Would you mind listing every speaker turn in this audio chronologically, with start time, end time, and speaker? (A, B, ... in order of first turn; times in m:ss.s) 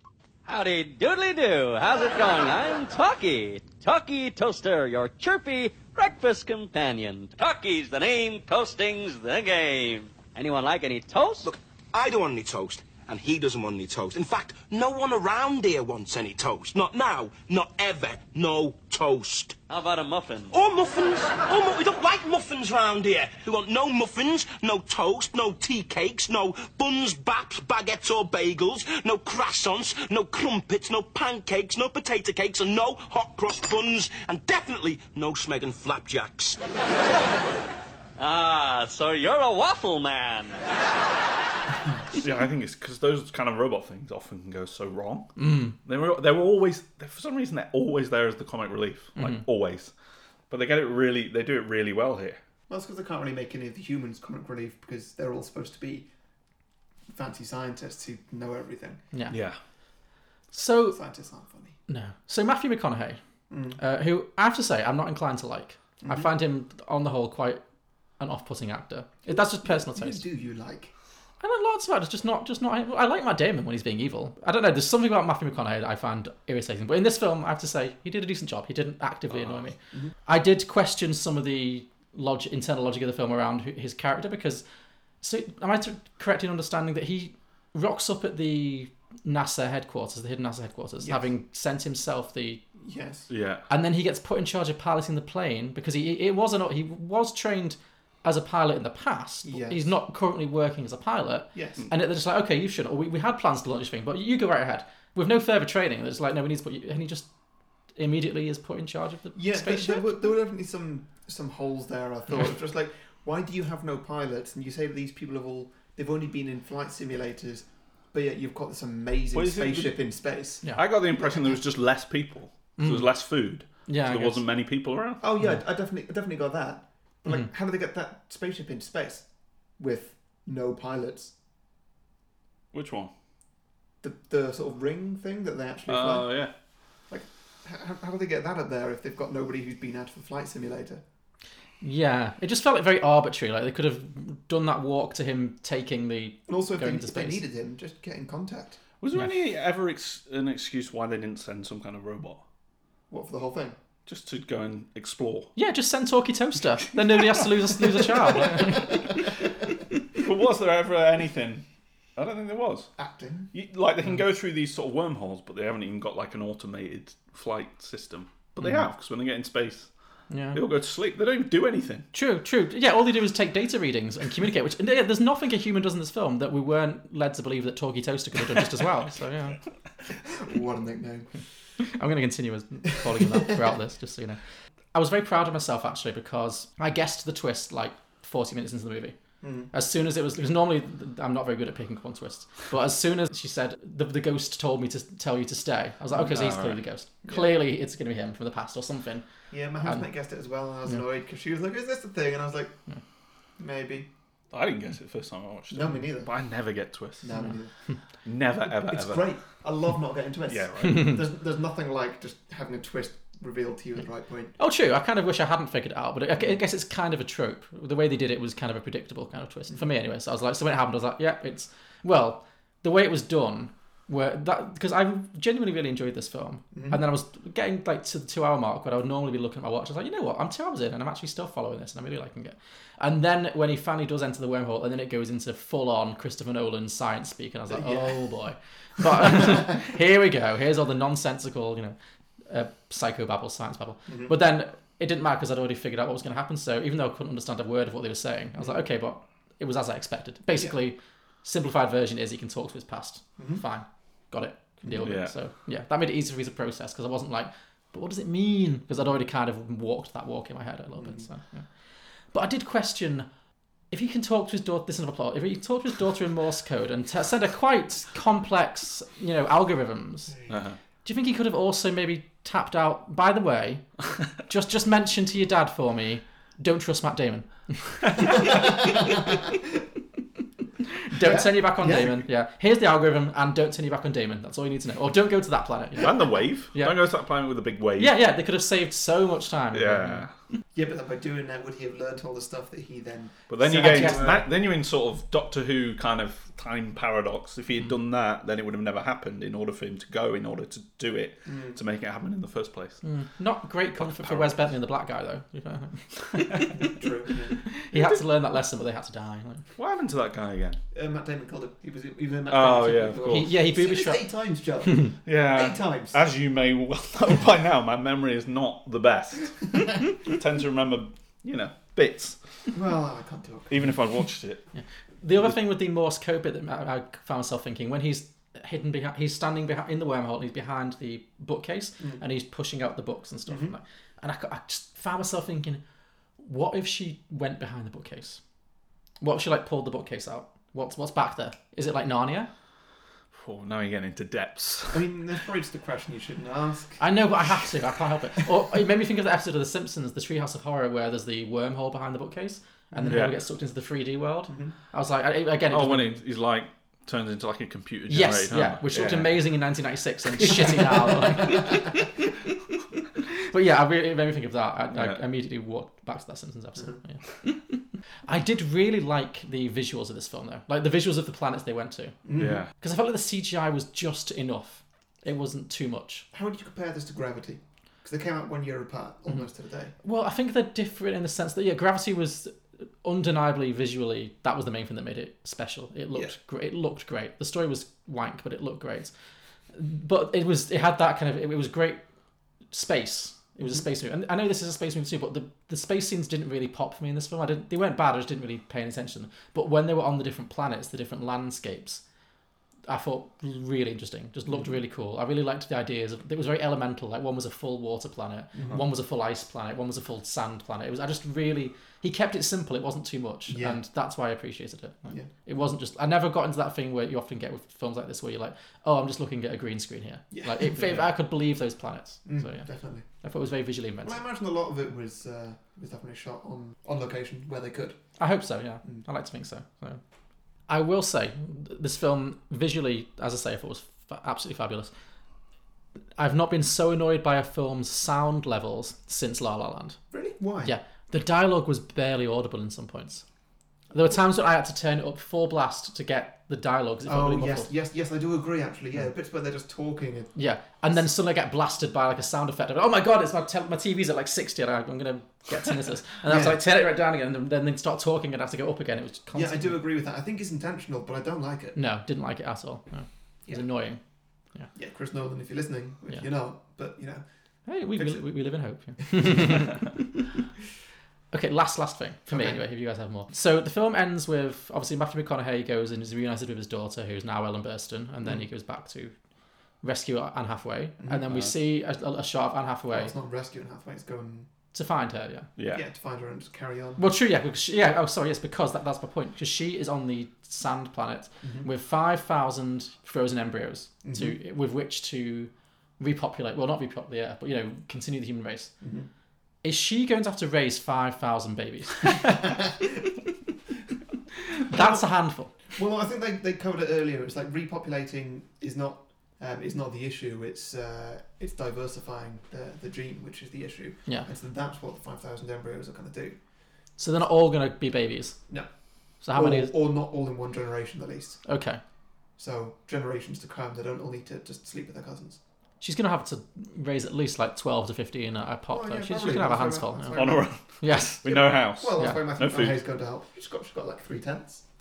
0:00.4-0:11.5 A
0:11.4-0:19.6 B
0:19.7-0:20.5 A
0:20.5-0:36.6 B
0:38.2-0:40.6 A
0:42.2-0:49.9 C
0:45.4-0:45.7 D
0:49.2-0:49.4 D
0:50.5-0:52.4 C
0:52.7-0:56.1 E
0:57.1-0:59.0 E
0:59.1-0:59.4 D
0:59.3-0:59.6 C
1:00.5-1:01.0 D
1:00.9-1:01.8 E
1:01.9-1:03.2 D
1:03.5-1:03.8 E
1:03.8-1:07.6 D
1:06.0-1:06.3 E
1:08.2-1:10.2 D
1:09.3-1:10.9 E
1:11.4-1:24.6 D
1:19.3-1:19.7 C
1:25.2-1:32.6 D
1:32.8-1:33.3 E
1:33.3-1:33.6 C
1:33.7-1:47.3 D
1:39.4-1:39.9 E
1:41.5-1:41.8 E
1:48.0-1:50.1 D
1:49.3-2:01.6 E
1:59.3-2:00.0 C
2:00.7-2:05.2 C
2:02.8-2:03.2 D
2:03.9-2:04.4 D
2:05.2-2:09.2 E
2:09.8-2:11.3 E
2:12.7-2:13.1 C
2:14.0-2:16.4 E
2:15.9-2:16.5 C
2:17.1-2:21.0 E
2:21.8-2:27.4 D
2:26.5-2:28.8 E
2:29.0-2:32.4 C
2:33.1-2:33.8 E
2:34.0-2:35.5 C
2:35.6-2:39.1 D
2:38.4-2:38.9 E
2:40.1-2:41.6 C
2:42.2-2:42.9 C
2:43.0-2:43.5 E
2:43.5-2:49.9 C
2:50.3-2:50.6 D
2:50.5-2:52.1 C
2:52.1-2:59.6 D
3:00.3-3:01.3 E
3:01.8-3:04.4 D
3:04.9-3:09.2 D
3:09.4-3:09.7 E
3:09.7-3:19.2 D
3:16.2-3:16.8 C
3:17.2-3:17.5 E
3:19.5-3:22.8 E
3:23.6-3:24.1 E
3:24.5-3:27.4 C
3:25.7-3:26.3 E
3:27.2-3:27.7 E
3:28.2-3:29.3 C
3:28.7-3:34.6 E
3:30.5-3:31.1 C
3:34.6-4:02.0 D
3:46.7-3:47.0 E
3:57.7-3:58.3 E
3:59.0-3:59.6 E
4:02.5-4:21.6 D
4:04.1-4:04.3 E
4:13.4-4:13.6 E
4:15.0-4:15.3 C
4:21.0-4:21.3 E
4:22.3-4:23.3 D
4:23.9-4:30.4 D
4:30.5-4:30.8 C
4:31.0-4:33.9 D
4:34.4-4:39.2 D
4:38.2-4:39.5 E
4:40.8-4:47.0 D
4:41.2-4:42.2 E
4:46.0-4:48.1 C
4:48.0-4:50.3 D
4:49.7-4:50.3 C
4:50.7-4:54.5 E
4:53.5-5:03.0 C
4:53.7-4:54.3 D
5:01.4-5:01.8 E
5:03.0-5:06.7 D
5:04.0-5:04.6 C
5:06.7-5:07.7 E
5:07.7-5:09.6 D
5:07.9-5:08.2 C
5:09.8-5:10.8 C
5:10.9-5:16.2 E
5:12.5-5:13.5 C
5:13.3-5:14.2 D
5:15.2-5:22.4 C
5:22.7-5:23.9 E
5:23.7-5:24.6 C
5:24.7-5:35.8 D
5:33.5-5:33.8 E
5:36.4-5:38.4 D
5:39.2-5:42.5 D
5:43.3-5:45.1 C
5:44.9-5:47.0 E
5:47.0-5:56.2 D
5:52.9-5:53.2 E
5:53.1-5:53.4 C
5:54.5-5:54.7 E
5:55.7-5:59.4 C
5:58.1-6:02.3 D
6:00.5-6:01.9 E
6:03.2-6:12.2 D
6:04.9-6:05.2 C
6:12.2-6:12.6 E
6:12.4-6:12.7 C
6:12.7-6:16.3 D
6:16.3-6:19.9 E
6:20.0-6:29.1 D
6:29.7-6:32.0 D
6:32.7-6:42.0 D
6:42.9-7:04.2 D
6:48.6-6:48.8 E
6:53.5-6:53.8 E
7:00.3-7:01.0 E
7:02.2-7:03.0 E
7:04.0-7:08.0 E
7:08.2-7:10.0 D
7:10.7-7:14.9 D
7:16.2-7:20.0 D
7:20.1-7:20.7 E
7:20.6-7:23.2 D
7:23.9-7:27.7 D
7:27.0-7:30.4 E
7:30.3-7:39.8 D
7:36.2-7:36.6 E
7:39.3-7:41.8 E
7:41.7-7:44.0 D
7:44.7-7:47.2 E
7:47.6-7:50.2 D
7:48.0-7:48.2 E
7:49.0-7:49.7 E
7:51.3-7:59.1 D
7:52.3-7:52.6 E
7:59.8-8:03.1 D
8:01.0-8:01.4 E
8:02.9-8:04.5 E
8:04.7-8:05.5 D
8:05.6-8:05.8 C
8:05.7-8:07.0 E
8:07.0-8:18.7 D
8:11.4-8:11.7 E
8:14.0-8:14.4 E
8:18.8-8:19.1 E
8:19.6-8:22.5 D
8:24.7-8:25.6 D
8:24.7-8:25.1 E
8:25.6-8:36.4 E
8:37.0-8:38.4 D
8:39.2-8:39.7 D
8:39.2-8:41.4 E
8:41.4-8:41.8 D
8:42.4-8:45.4 E
8:45.8-8:50.2 D
8:48.7-8:50.5 E
8:50.1-8:52.8 C
8:50.8-8:51.2 D
8:51.2-8:54.6 E